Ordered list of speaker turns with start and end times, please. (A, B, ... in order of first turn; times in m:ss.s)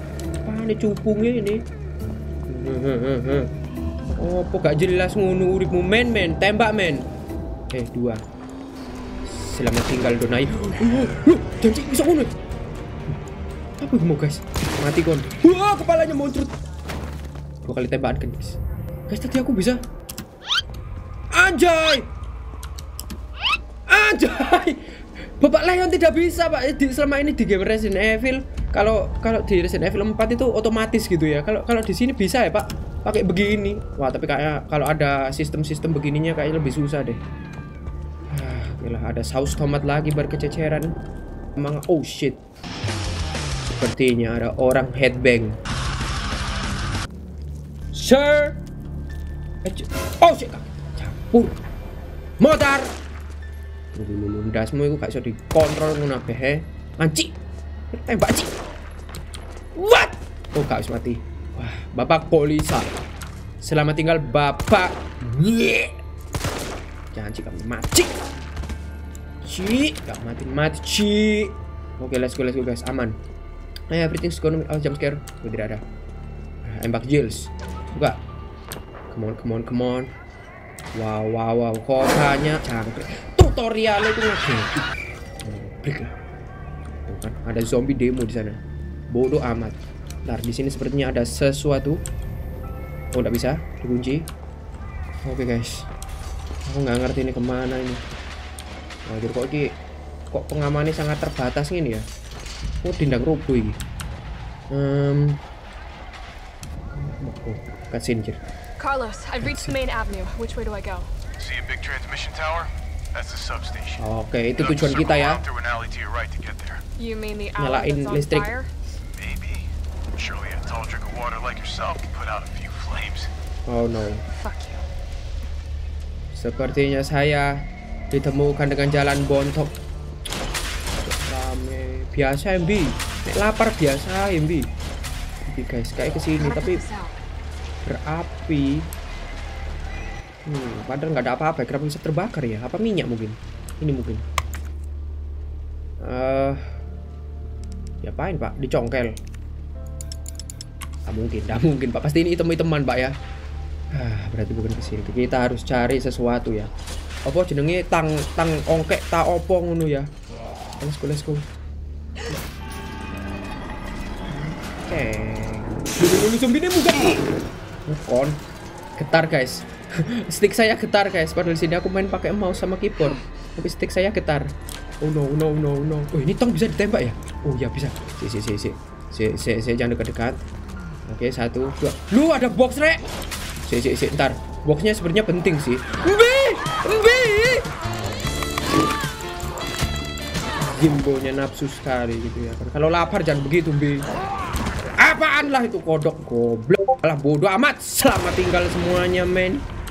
0:00.4-0:01.6 A
0:02.5-0:03.5 A
0:04.2-0:07.1 A
0:07.7-0:08.2 A
0:09.2-0:12.3 A
0:13.8-0:16.5 A
0:17.6-0:18.6 A
0:19.1-0:19.8 A
0:21.3-0:22.1 A
0:23.9-0:24.9 A
0:25.4-0:37.2 A
0:38.3-0:41.0 A
0:41.6-0:42.4 A
0:43.8-0:45.6 A
0:47.9-0:48.6 A
0:49.6-0:51.6 A
0:52.4-0:52.9 A
0:53.9-0:57.4 A
0:57.9-0:58.5 A
0:59.8-1:03.0 A
1:03.6-1:06.0 A
1:07.1-1:08.2 A
1:09.4-1:13.2 A
1:13.9-1:15.8 A
1:16.6-1:18.2 A
1:19.1-1:20.1 A
1:21.0-1:24.9 A
1:25.4-1:26.2 A
1:27.1-1:28.6 A
1:29.1-1:32.0 A
1:33.1-1:34.2 A
1:35.2-1:35.9 A
1:36.7-1:38.0 A
1:39.1-1:39.7 A
1:40.3-1:42.0 A
1:42.8-1:43.8 A
1:44.7-1:45.4 A
1:46.9-1:48.4 A
1:48.8-1:51.1 B
1:49.4-1:49.8 A
1:51.4-1:54.0 C
1:54.0-1:55.4 A
1:54.6-1:56.8 C
1:57.0-1:58.7 B
1:57.6-1:58.5 A
1:59.1-2:03.3 C
2:03.7-2:04.2 A
2:04.3-2:04.9 B
2:06.4-2:09.7 A
2:11.0-2:14.7 A
2:15.4-2:16.8 A
2:16.4-2:17.2 B
2:17.8-2:18.9 A
2:20.5-2:24.2 A
2:26.0-2:26.6 A
2:28.0-2:29.2 A
2:31.1-2:33.1 A
2:33.9-2:36.7 A
2:37.3-2:40.1 A
2:40.8-2:41.5 A
2:44.3-2:47.2 A
2:47.9-2:48.4 A
2:49.0-3:00.4 A
3:01.1-3:03.0 A
3:03.7-3:07.7 A
3:10.6-3:14.1 A
3:15.0-3:19.6 A